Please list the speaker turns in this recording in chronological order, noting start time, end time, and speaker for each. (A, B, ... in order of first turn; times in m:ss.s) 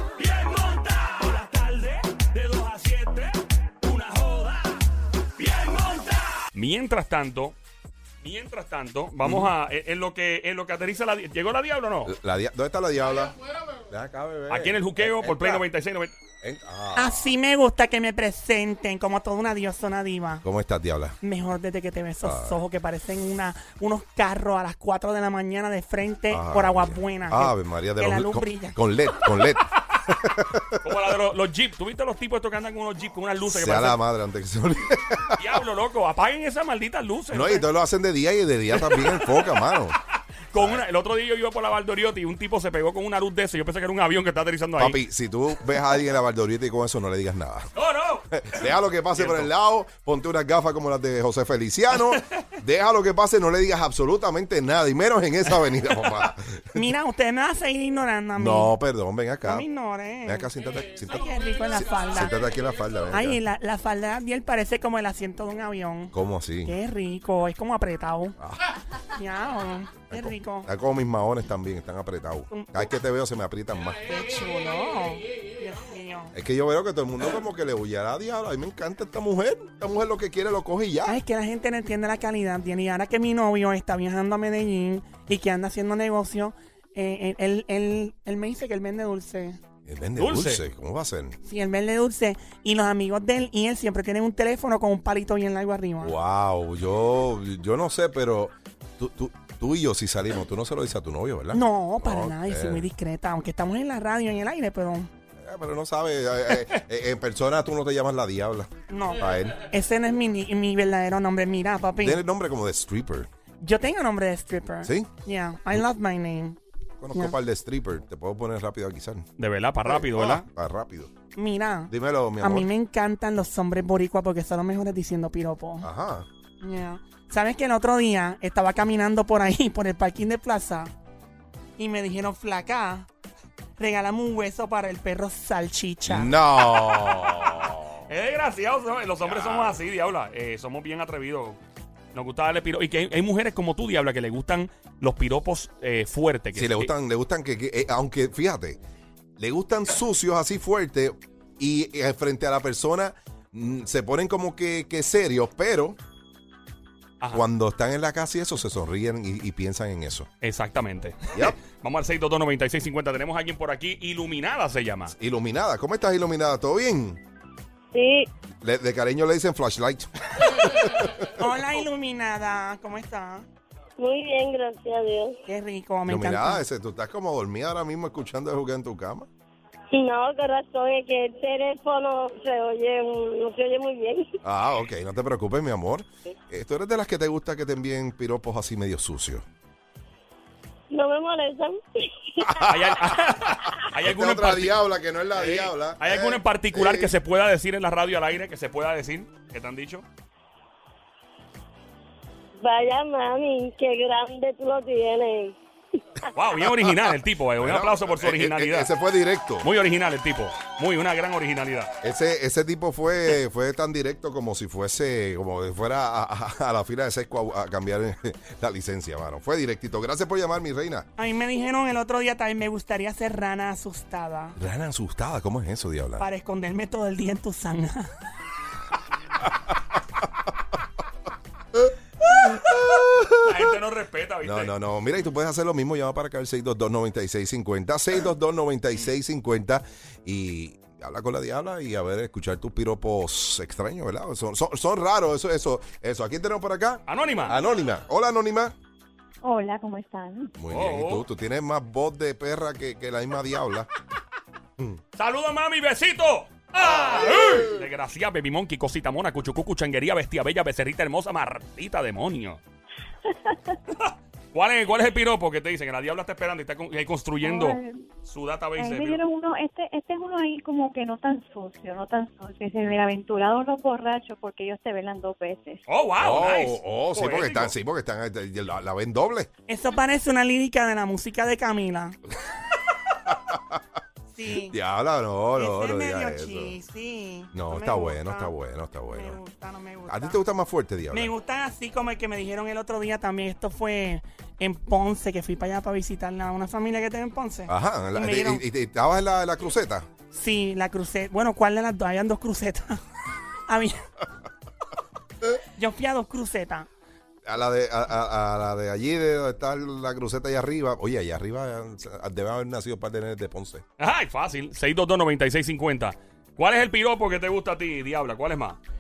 0:00.2-0:04.8 A
0:05.4-0:07.6 A
0:08.2-0:12.1 A
0:09.2-0:09.5 B
0:12.0-0:15.7 B
0:14.5-0:16.2 A
0:16.4-0:17.3 B
0:17.0-0:20.4 C
0:20.4-0:21.2 B
0:21.2-0:28.8 C
0:22.2-0:22.6 B
0:26.3-0:30.9 B
0:30.8-0:34.0 A
0:33.5-0:35.6 B
0:35.4-0:37.7 A
0:37.3-0:40.0 B
0:38.7-0:39.6 A
0:40.5-0:45.0 A
0:40.6-0:40.8 B
0:44.8-0:47.7 B
0:47.8-0:49.5 A
0:48.3-0:56.9 B
0:56.8-0:58.7 C
0:58.4-0:59.7 B
0:59.4-1:00.5 C
1:00.2-1:03.4 B
1:01.1-1:02.4 C
1:03.1-1:08.4 C
1:06.1-1:06.8 B
1:08.4-1:08.6 B
1:09.1-1:10.7 C
1:10.1-1:14.0 B
1:12.5-1:12.9 C
1:14.0-1:16.3 C
1:16.3-1:21.2 B
1:21.1-1:29.6 C
1:29.9-1:31.4 B
1:30.2-1:30.6 A
1:31.4-1:36.1 C
1:36.0-1:42.9 B
1:41.5-1:45.1 C
1:45.4-1:49.6 B
1:48.9-1:52.2 C
1:52.0-1:53.3 B
1:53.6-1:56.6 C
1:54.8-1:55.1 B
1:57.0-1:59.3 B
1:59.4-2:00.4 A
1:59.8-2:01.1 B
2:01.4-2:05.9 C
2:01.9-2:02.7 B
2:05.8-2:06.3 B
2:06.6-2:10.9 C
2:11.8-2:13.1 C
2:13.8-2:16.4 C
2:16.1-2:18.0 B
2:17.0-2:17.3 A
2:18.1-2:21.6 A
2:19.2-2:19.8 B
2:22.1-2:26.9 A
2:26.5-2:28.8 B
2:29.4-2:36.0 B
2:37.3-2:40.3 B
2:40.4-2:45.1 A
2:45.2-2:47.2 B
2:47.9-2:48.3 D
2:48.6-2:51.4 B
2:51.4-2:53.5 C
2:54.0-2:55.4 D
2:55.5-2:56.7 C
2:56.1-2:59.3 B
2:59.9-3:04.3 D
3:04.4-3:09.4 B
3:10.9-3:12.6 D
3:12.5-3:13.0 B
3:12.6-3:14.8 A
3:13.8-3:17.2 B
3:15.4-3:20.0 A
3:22.6-3:25.6 D
3:26.3-3:28.9 A
3:27.6-3:29.7 B
3:29.6-3:31.9 A
3:32.0-3:41.1 B
3:41.2-3:44.6 C
3:44.6-3:46.2 B
3:46.2-3:48.1 C
3:52.4-3:53.6 B
3:53.4-3:54.7 A
3:54.4-4:08.7 B
4:07.1-4:07.6 A
4:09.4-4:10.5 E
4:10.6-4:13.9 B
4:10.7-4:11.3 A
4:15.2-4:22.6 A
4:23.9-4:29.2 A
4:27.4-4:28.0 E
4:28.8-4:35.8 E
4:35.9-4:37.8 A
4:36.2-4:39.5 B
4:39.7-4:42.2 C
4:43.3-4:43.8 B
4:44.3-4:44.8 C
4:44.6-4:46.8 B
4:45.6-4:48.5 C
4:47.5-4:49.4 B
4:49.1-4:50.4 C
4:50.1-4:51.3 B
4:51.1-4:58.6 C
4:57.7-5:00.1 B
5:00.3-5:03.0 C
5:03.7-5:04.0 C
5:05.8-5:06.9 C
5:07.5-5:13.8 B
5:14.0-5:18.8 A